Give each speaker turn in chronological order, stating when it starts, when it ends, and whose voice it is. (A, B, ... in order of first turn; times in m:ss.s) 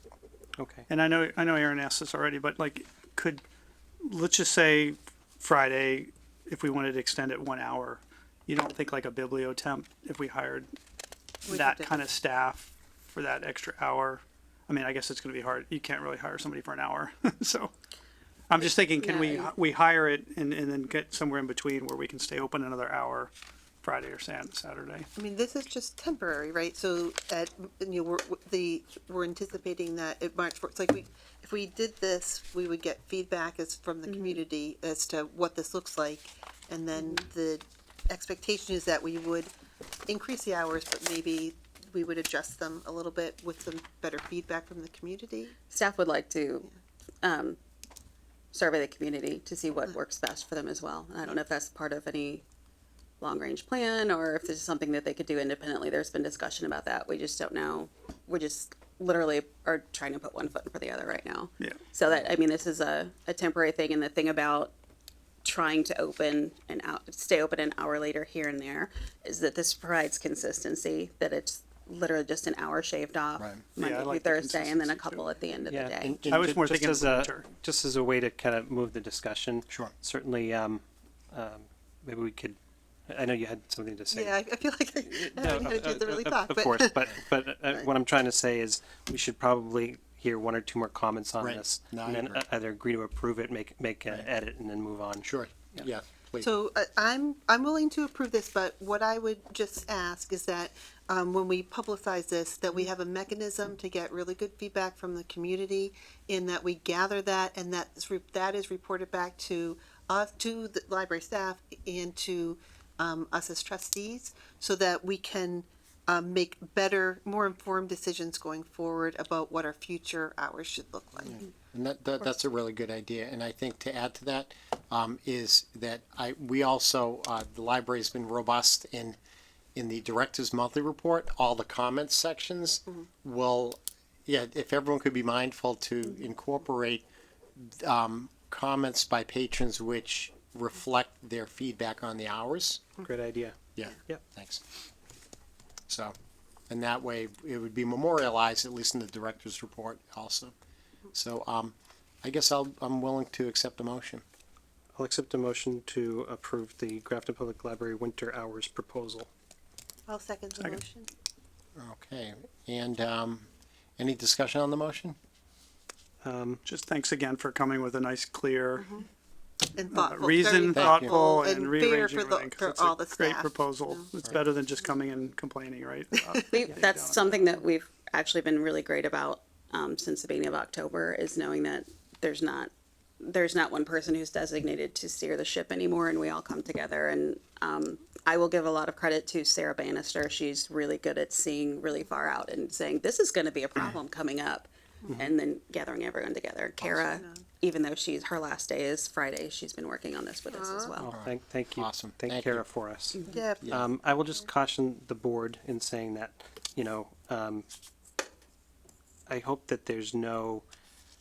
0:00.6-0:00.8 A
0:00.9-0:03.4 B
0:04.0-0:10.7 B
0:11.4-0:12.1 C
0:11.5-0:17.7 B
0:18.5-0:23.3 B
0:19.0-0:19.5 D
0:23.8-0:25.1 B
0:25.2-0:39.5 C
0:34.0-0:34.4 D
0:40.1-0:45.6 C
0:45.7-0:46.7 D
0:47.2-0:47.6 D
0:48.5-0:52.4 D
0:53.2-1:04.7 D
1:05.4-1:16.3 D
1:13.4-1:13.7 E
1:13.7-1:15.3 B
1:15.7-1:22.6 A
1:16.0-1:16.6 E
1:16.3-1:17.4 B
1:19.7-1:19.9 E
1:23.1-1:24.4 A
1:24.1-1:27.1 C
1:25.0-1:35.8 A
1:31.4-1:32.4 E
1:35.2-1:36.5 E
1:36.4-2:01.4 C
2:01.2-2:09.2 E
2:09.7-2:17.0 E
2:17.6-2:22.9 E
2:23.0-2:24.2 A
2:23.8-2:24.6 E
2:25.9-2:26.1 E
2:26.7-2:30.5 E
2:31.1-2:34.2 E
2:34.9-2:39.3 A
2:40.1-2:41.1 C
2:41.8-2:43.5 E
2:44.0-2:45.2 E
2:46.2-2:46.6 A
2:46.6-2:49.0 B
2:49.7-2:54.1 C
2:49.9-2:57.6 B
2:50.7-2:51.1 E
2:56.4-3:21.1 D
3:16.8-3:17.5 C
3:20.5-3:20.9 C
3:21.0-3:27.6 A
3:21.1-3:22.6 E
3:23.1-3:23.4 D
3:23.2-3:23.8 C
3:29.3-3:30.6 A